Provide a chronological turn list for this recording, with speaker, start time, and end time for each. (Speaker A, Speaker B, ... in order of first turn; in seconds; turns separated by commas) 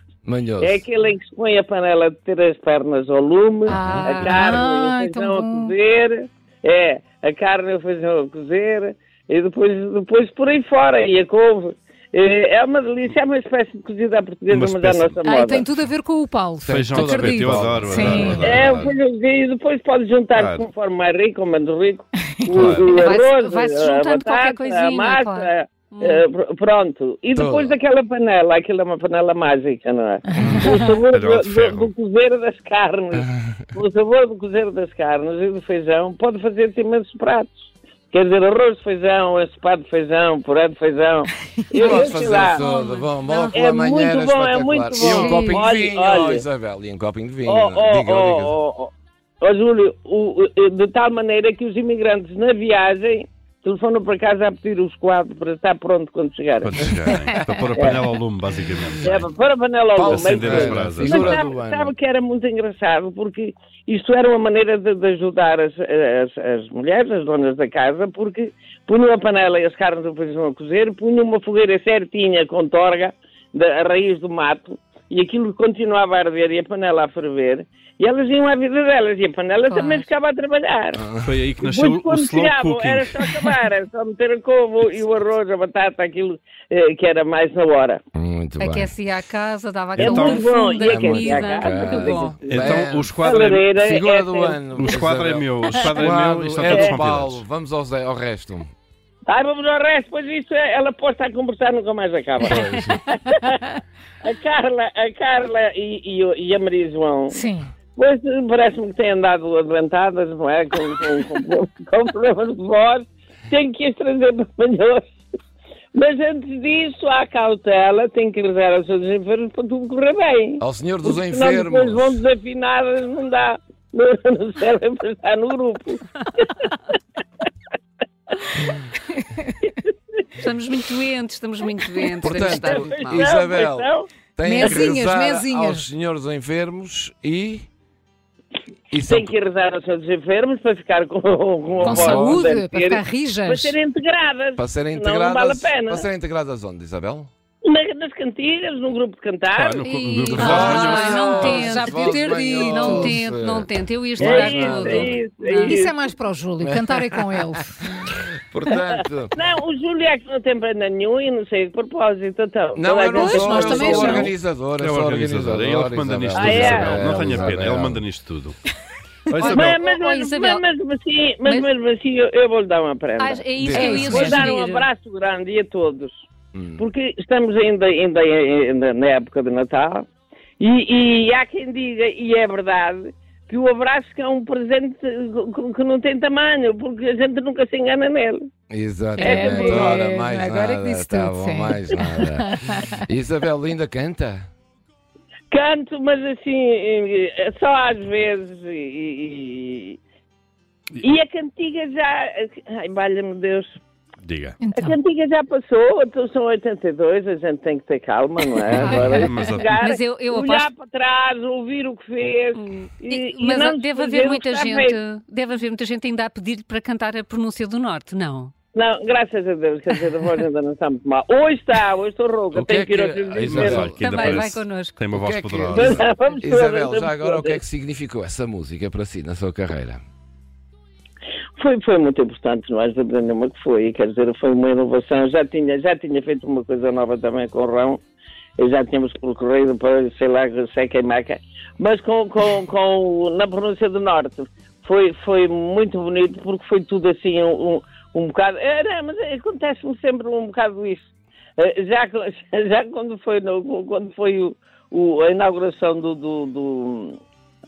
Speaker A: 0.2-0.8, Speaker B: 0.6-15.7, Speaker C: 3.7-4.6, Speaker D: 3.7-5.7, Speaker E: 14.5-15.2, Speaker D: 15.2-18.5, Speaker A: 16.6-18.9, Speaker E: 16.7-18.9, Speaker B: 18.4-42.6, Speaker E: 20.3-20.7, Speaker E: 22.5-23.0, Speaker C: 22.7-26.2, Speaker A: 27.3-27.7, Speaker D: 30.3-30.8, Speaker A: 30.4-30.6, Speaker E: 31.1-31.9, Speaker D: 41.7-43.6, Speaker A: 41.8-48.5, Speaker B: 43.5-46.4, Speaker D: 45.0-45.6, Speaker B: 47.5-56.8, Speaker E: 56.6-59.3, Speaker B: 57.7-58.0, Speaker B: 59.0-81.1, Speaker A: 60.0-61.9, Speaker E: 60.1-61.4, Speaker C: 79.7-80.1, Speaker A: 80.9-81.4, Speaker E: 81.2-83.6, Speaker B: 81.6-88.0, Speaker A: 88.1-88.9, Speaker C: 88.6-92.4, Speaker E: 90.0-90.5, Speaker B: 90.0-94.6, Speaker A: 90.7-93.1, Speaker E: 92.5-93.7, Speaker A: 93.8-98.7, Speaker E: 94.7-97.4, Speaker B: 96.6-97.0, Speaker B: 99.3-103.7, Speaker E: 102.4-103.0, Speaker B: 104.2-107.4, Speaker D: 107.3-107.7, Speaker B: 108.0-115.2, Speaker B: 115.9-126.7, Speaker A: 120.6-122.2, Speaker B: 128.3-128.8, Speaker B: 129.6-129.9, Speaker C: 130.4-133.3, Speaker A: 132.2-137.7, Speaker B: 132.3-134.1, Speaker D: 134.4-135.8, Speaker A: 138.9-139.3, Speaker B: 139.1-146.0, Speaker A: 141.8-142.5, Speaker D: 141.8-143.7, Speaker A: 144.6-147.3, Speaker B: 147.6-149.9, Speaker E: 149.5-151.2, Speaker C: 149.8-155.8, Speaker A: 150.3-155.2, Speaker D: 150.8-153.2, Speaker B: 154.2-156.0, Speaker D: 155.7-157.7, Speaker A: 156.6-157.4, Speaker A: 158.5-159.3, Speaker B: 159.0-164.3, Speaker A: 162.7-168.0, Speaker D: 163.1-164.3, Speaker E: 164.8-168.6, Speaker B: 166.3-167.3, Speaker E: 169.3-169.8, Speaker C: 169.4-170.6, Speaker B: 169.4-173.4, Speaker C: 171.4-171.7, Speaker C: 173.2-174.9, Speaker A: 173.6-174.3, Speaker D: 173.7-174.5, Speaker B: 174.0-176.2, Speaker A: 176.5-176.8, Speaker B: 176.8-180.1, Speaker B: 180.6-188.4, Speaker A: 188.7-194.4, Speaker D: 189.2-192.9, Speaker B: 189.2-190.0, Speaker B: 195.5-200.0, Speaker B: 201.0-203.8, Speaker E: 204.2-204.6, Speaker D: 204.6-204.9, Speaker B: 204.7-215.0, Speaker E: 208.7-209.7, Speaker C: 209.6-210.7, Speaker C: 212.5-218.5, Speaker B: 218.7-223.8, Speaker A: 222.5-224.4, Speaker E: 223.4-226.0, Speaker C: 223.7-225.0, Speaker A: 225.1-230.0, Speaker B: 225.7-227.6, Speaker B: 231.6-238.0, Speaker B: 238.6-251.1, Speaker B: 251.6-257.2